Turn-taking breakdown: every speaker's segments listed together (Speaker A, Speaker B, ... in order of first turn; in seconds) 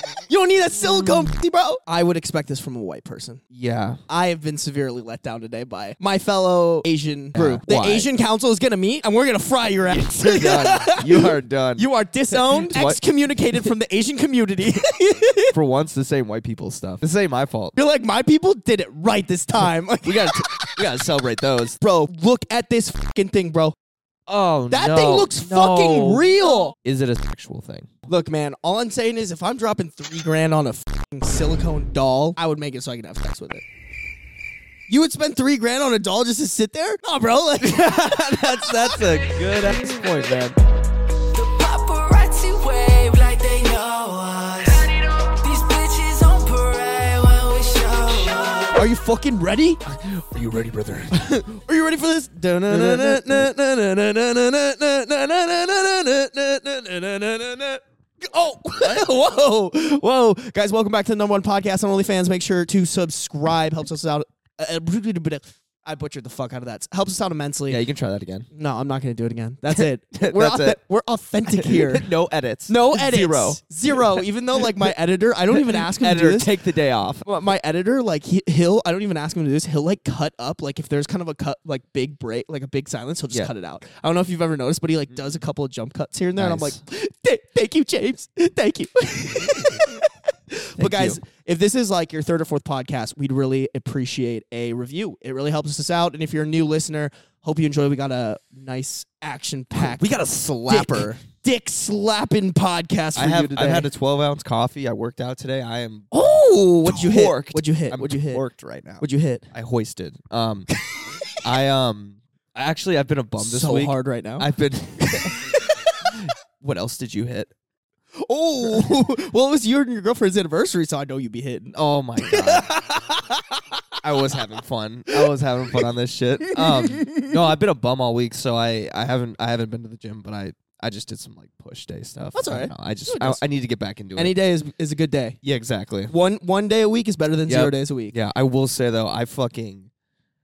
Speaker A: 0.2-3.4, 4.1-15.6, 17.8-20.8, 21.8-23.8, 24.7-26.8, 28.1-33.6, 34.9-38.0, 48.8-49.8, 51.1-67.8, 68.5-72.1, 72.7-76.5, 77.2-100.1, 100.7-103.9, 106.1-108.4, 109.0-109.5, 113.4-114.5, 115.1-115.5, 118.2-123.6, 126.5-127.4, 132.3-133.4, 134.2-135.4, 136.1-138.2
Speaker B: 3.5-4.0, 7.3-8.1, 9.9-13.0, 15.5-17.8, 20.1-21.8, 24.3-27.9, 37.6-40.6, 49.9-51.2, 52.7-53.5, 58.8-59.0, 67.7-68.5, 69.8-70.8, 71.5-74.8, 75.5-77.3, 86.4-86.8, 90.8-91.2, 99.7-101.2, 103.2-106.1, 106.8-110.7, 111.4-115.4, 116.1-117.5, 121.7-122.8, 124.0-134.3, 135.4-136.1, 137.5-139.9
Speaker C: 39.0-39.5, 41.3-48.9